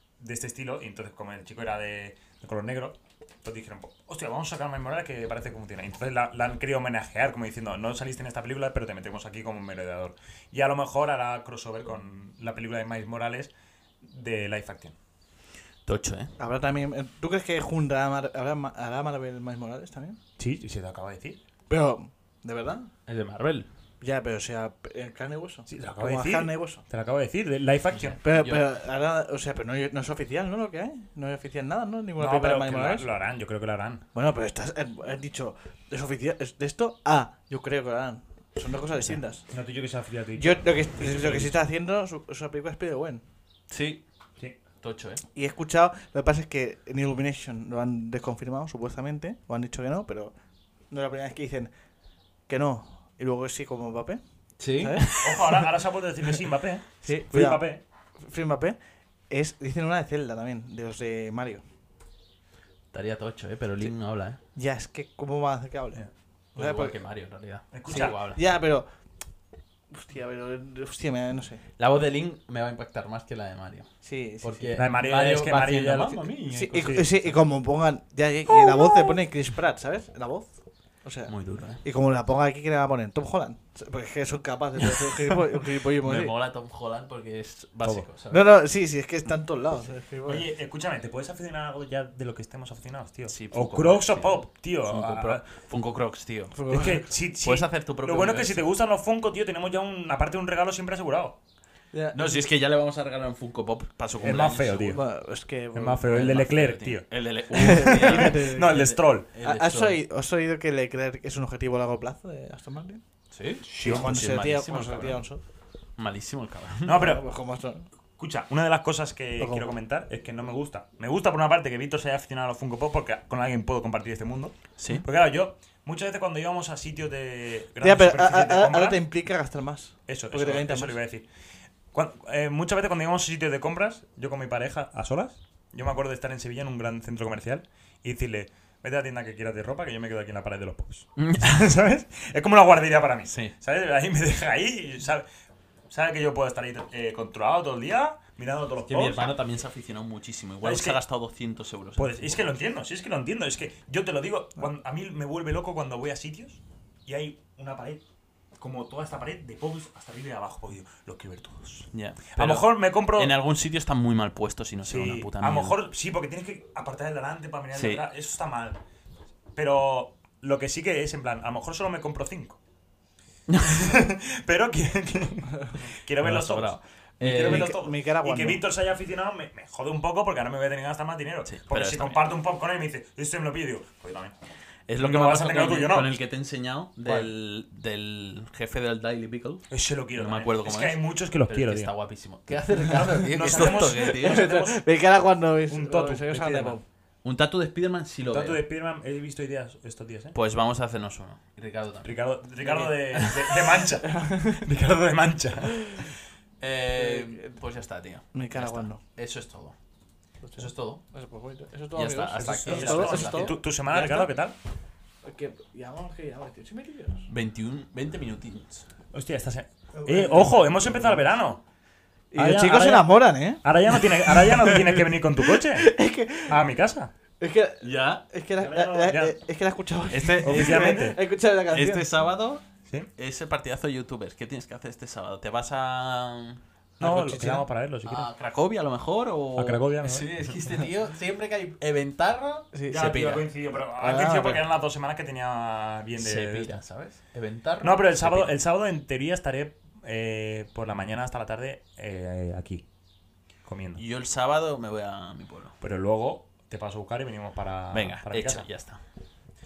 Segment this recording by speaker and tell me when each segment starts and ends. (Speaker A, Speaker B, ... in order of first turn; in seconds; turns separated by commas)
Speaker A: 0.2-13.5, Speaker A: 14.0-14.9, Speaker B: 15.8-16.3, Speaker C: 16.4-20.2, Speaker A: 20.4-21.4, Speaker C: 21.7-22.9, Speaker B: 23.1-23.7, Speaker C: 24.0-26.8, Speaker A: 25.7-28.2, Speaker B: 27.9-28.6, Speaker C: 28.2-33.1, Speaker A: 32.2-34.0, Speaker C: 34.1-39.5, Speaker A: 39.5-41.6, Speaker C: 40.4-43.2, Speaker B: 43.7-44.0, Speaker B: 44.8-45.2, Speaker C: 45.3-50.3, Speaker C: 50.9-51.7, Speaker C: 52.5-54.2, Speaker B: 54.6-55.6, Speaker C: 54.8-55.6, Speaker A: 55.2-57.8, Speaker C: 57.0-57.7, Speaker C: 58.2-58.8, Speaker C: 59.3-61.6, Speaker B: 62.9-64.4, Speaker C: 64.5-67.0, Speaker B: 66.5-68.4, Speaker A: 67.7-68.2, Speaker C: 67.9-68.9, Speaker C: 69.9-71.6, Speaker B: 71.8-73.9, Speaker C: 74.0-74.8, Speaker B: 74.4-77.3, Speaker A: 74.8-77.1, Speaker C: 76.5-86.3, Speaker B: 81.3-81.8, Speaker B: 85.8-88.4, Speaker C: 88.3-90.5, Speaker A: 90.2-95.4, Speaker B: 93.3-96.6, Speaker C: 96.5-97.1, Speaker A: 96.7-101.4, Speaker B: 97.4-98.6, Speaker C: 101.9-102.5, Speaker B: 102.1-105.0, Speaker A: 104.2-105.0, Speaker C: 104.8-106.3, Speaker A: 105.7-109.3, Speaker B: 106.0-110.0, Speaker C: 107.5-113.0, Speaker B: 113.3-115.2, Speaker A: 113.7-114.2, Speaker C: 113.8-115.4, Speaker B: 116.0-117.0, Speaker A: 116.8-117.2, Speaker C: 116.9-117.9, Speaker A: 118.2-129.0, Speaker C: 119.4-119.7, Speaker B: 124.8-125.0, Speaker C: 127.8-131.0, Speaker A: 130.1-131.2, Speaker A: 131.9-145.2, Speaker B: 141.2-141.6, Speaker B: 143.3-143.5, Speaker A: 145.9-149.3, Speaker B: 148.8-152.5, Speaker A: 150.6-151.0, Speaker A: 152.0-158.0, Speaker A: 158.6-163.4, Speaker B: 161.9-165.8, Speaker A: 164.8-168.8, Speaker B: 167.7-168.0, Speaker A: 169.5-172.6, Speaker B: 173.5-173.8, Speaker A: 173.6-184.3, Speaker B: 176.2-177.7, Speaker C: 177.3-178.6, Speaker B: 181.4-182.2, Speaker B: 184.9-189.6, Speaker A: 185.0-186.2, Speaker A: 189.7-191.9, Speaker B: 190.1-194.6, Speaker A: 193.3-194.8, Speaker C: 193.4-196.8, Speaker A: 195.7-196.8, Speaker B: 197.2-198.6, Speaker A: 198.3-200.3, Speaker B: 200.3-203.6, Speaker A: 202.0-206.2, Speaker C: 204.1-204.6, Speaker B: 206.6-209.8, Speaker C: 206.9-207.5, Speaker C: 208.3-209.0, Speaker C: 210.4-214.3, Speaker B: 210.5-211.0, Speaker B: 211.9-214.1, Speaker A: 212.4-214.5, Speaker C: 215.2-217.3, Speaker B: 217.3-218.8, Speaker A: 219.1-221.6, Speaker C: 219.9-221.3, Speaker C: 222.3-226.6, Speaker A: 222.3-227.1, Speaker C: 227.4-232.1, Speaker B: 227.8-228.2, Speaker A: 228.6-229.3, Speaker B: 230.1-231.0, Speaker A: 230.4-231.2, Speaker B: 231.7-232.6, Speaker B: 233.2-236.6, Speaker C: 237.0-237.7, Speaker A: 237.0-238.3, Speaker B: 238.0-243.4, Speaker A: 239.6-240.7, Speaker C: 242.7-243.1, Speaker A: 242.9-246.7, Speaker C: 243.8-244.6, Speaker B: 246.2-248.5, Speaker A: 247.8-252.8, Speaker A: 253.6-254.0, Speaker B: 253.9-255.7, Speaker A: 255.8-258.7, Speaker B: 257.9-259.0